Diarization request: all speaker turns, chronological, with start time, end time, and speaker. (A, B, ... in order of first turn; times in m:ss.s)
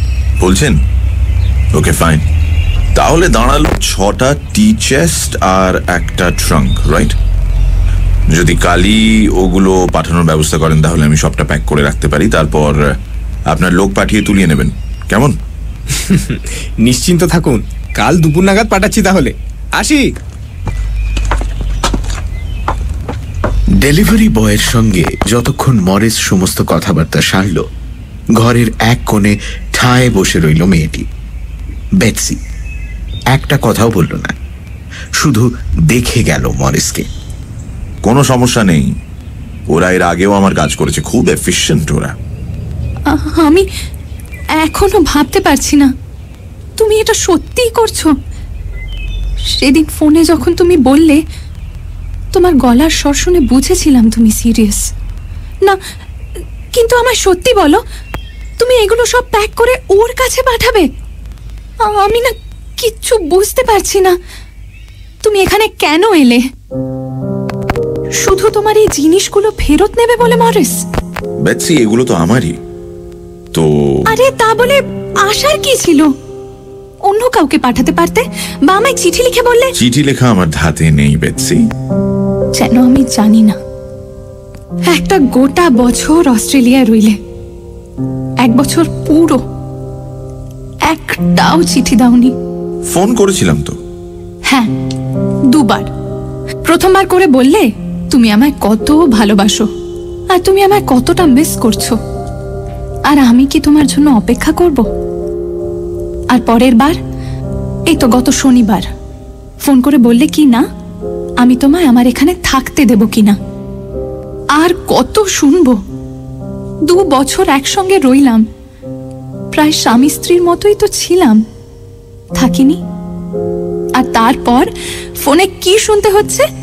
0:00.4-0:00.8 A
0:01.7-0:02.2 A
0:03.0-0:07.2 A
0:08.3-0:12.8 A
0:13.5-0:15.4 A
0:15.9-0:20.0 B
0:23.8-0:27.6 C
0:28.4-0:31.1 C
0:32.0-0:32.4 C
0:33.3-0:34.4 C
0:35.2-0:37.1 C
0:38.0-0:39.0 A
0:39.7-0:42.2 A
0:43.1-0:43.7 D
0:44.6-0:45.9 D
0:46.8-0:48.1 D
0:49.5-0:51.2 D
0:52.3-0:54.8 D
0:56.7-0:57.8 D
0:58.6-1:00.9 D
1:01.8-1:04.2 D
1:05.2-1:06.4 D
1:08.2-1:10.8 D
1:11.4-1:12.6 A
1:13.5-1:14.1 A
1:14.1-1:16.1 D
1:17.1-1:19.8 D
1:19.8-1:21.7 A
1:22.5-1:23.6 D
1:24.9-1:27.2 D
1:28.4-1:29.4 D
1:30.9-1:32.3 D
1:32.9-1:33.8 A
1:35.5-1:35.9 D
1:36.7-1:39.7 D
1:40.3-1:42.0 D
1:43.1-1:44.9 D
1:46.3-1:47.0 D
1:47.9-1:48.9 D
1:49.6-1:50.6 D
1:51.4-1:53.4 D
1:54.6-1:55.8 D
1:56.9-1:58.4 D
1:59.5-2:01.4 D
2:02.4-2:02.8 D
2:04.0-2:06.5 D